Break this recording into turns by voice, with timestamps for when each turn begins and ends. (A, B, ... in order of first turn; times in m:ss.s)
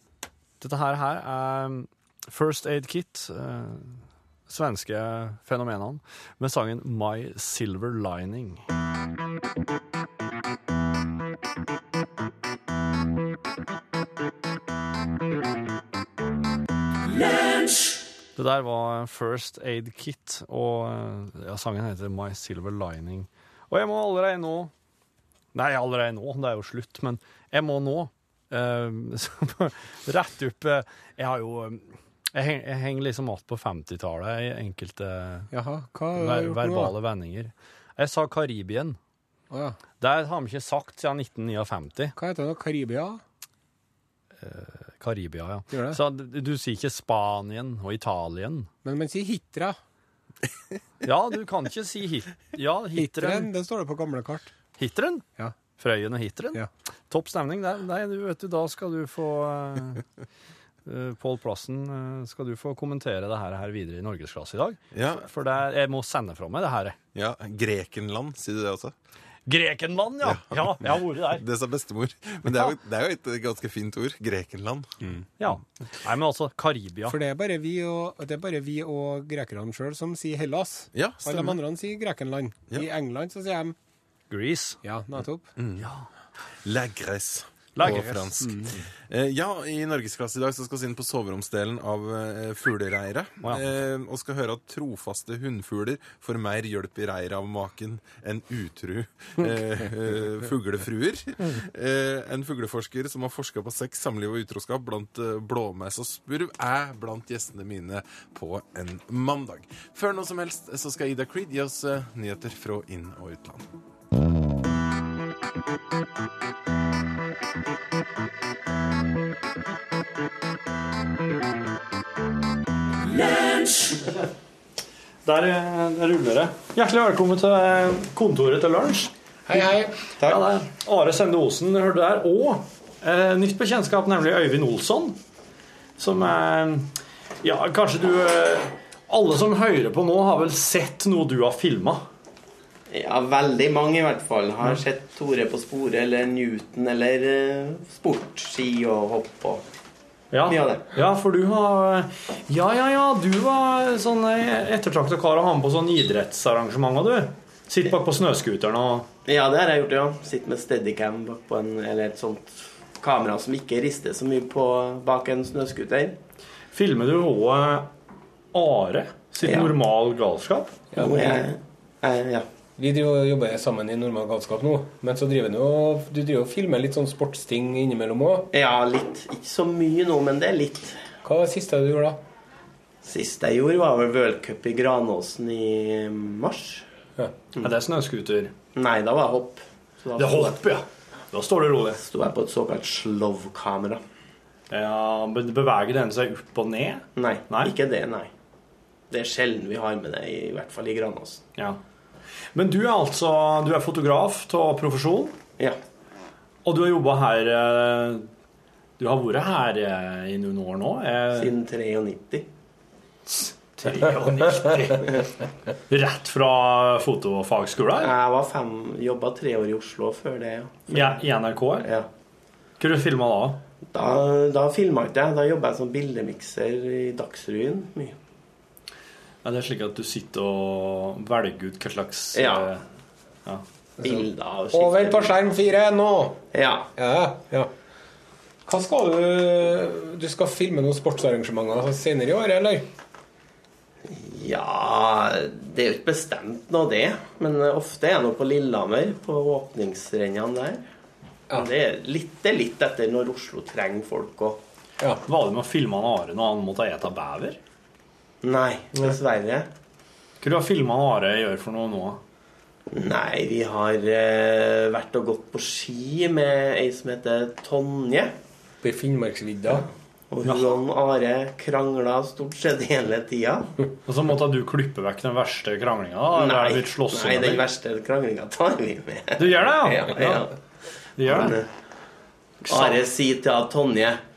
0:00.6-0:08.6 A
0:18.4-0:24.7 A
0:25.5-0:35.5 A
0:35.5-0:36.9 B
0:36.2-0:39.0 A
0:39.5-0:39.8 B
0:40.0-0:42.2 A
0:42.2-0:43.2 B
0:44.4-0:48.7 A
0:45.7-0:46.0 B
0:48.8-0:49.8 B
0:51.0-0:53.5 A
0:53.0-0:54.5 B
0:54.8-0:55.3 A
0:55.8-1:00.0 A
1:00.8-1:07.0 A
1:04.9-1:05.3 C
1:07.2-1:08.9 C
1:09.5-1:11.4 A
1:10.2-1:15.1 C
1:15.4-1:17.2 A
1:17.1-1:23.8 B
1:20.9-1:21.6 C
1:24.3-1:24.8 A
1:24.8-1:25.5 B
1:25.6-1:25.9 C
1:25.8-1:26.1 A
1:26.6-1:53.6 C
1:27.8-1:28.3 A
1:27.8-1:28.7 B
2:03.7-2:04.2 A
2:05.2-2:15.2 A
2:09.5-2:09.9 B
2:16.0-2:22.0 A
2:22.9-2:29.6 D
2:30.3-2:39.1 A
2:30.5-2:30.9 D
2:39.3-2:46.2 D
2:46.7-2:47.9 A
2:48.5-2:50.8 A
2:49.4-2:49.8 D
2:50.9-2:51.4 B
2:51.0-2:52.5 D
2:52.8-2:58.5 B
2:58.5-3:01.0 D
3:01.2-3:02.2 B
3:03.0-3:06.9 D
3:07.6-3:08.5 A
3:08.8-3:10.6 D
3:10.2-3:12.0 A
3:12.0-3:14.0 D
3:14.7-3:17.7 A
3:17.2-3:18.3 D
3:19.1-3:21.5 D
3:22.5-3:25.4 A
3:26.6-3:28.3 A
3:29.0-3:31.5 A
3:31.3-3:32.5 D
3:33.3-3:35.3 A
3:35.9-3:38.1 A
3:38.0-3:41.2 D
3:40.9-3:41.9 A
3:41.8-3:42.1 D
3:42.8-3:43.6 A
3:43.9-3:48.2 D
3:49.4-3:52.8 A
3:52.4-3:52.7 D
3:54.0-3:55.3 D
3:54.7-3:56.4 B
3:56.5-3:56.9 D
3:57.0-3:57.7 B
3:58.7-4:02.9 B
4:04.1-4:10.8 D
4:11.5-4:14.6 D
4:15.3-4:17.6 A
4:18.4-4:19.7 D
4:20.4-4:22.2 A
4:22.9-4:28.4 D
4:28.8-4:29.9 B
4:29.7-4:33.8 D
4:30.4-4:30.8 A
4:34.1-4:37.6 A
4:36.3-4:40.5 D
4:39.4-4:40.5 A
4:41.2-4:41.6 A
4:41.3-4:41.7 D
4:42.7-4:43.0 A
4:42.7-4:44.2 D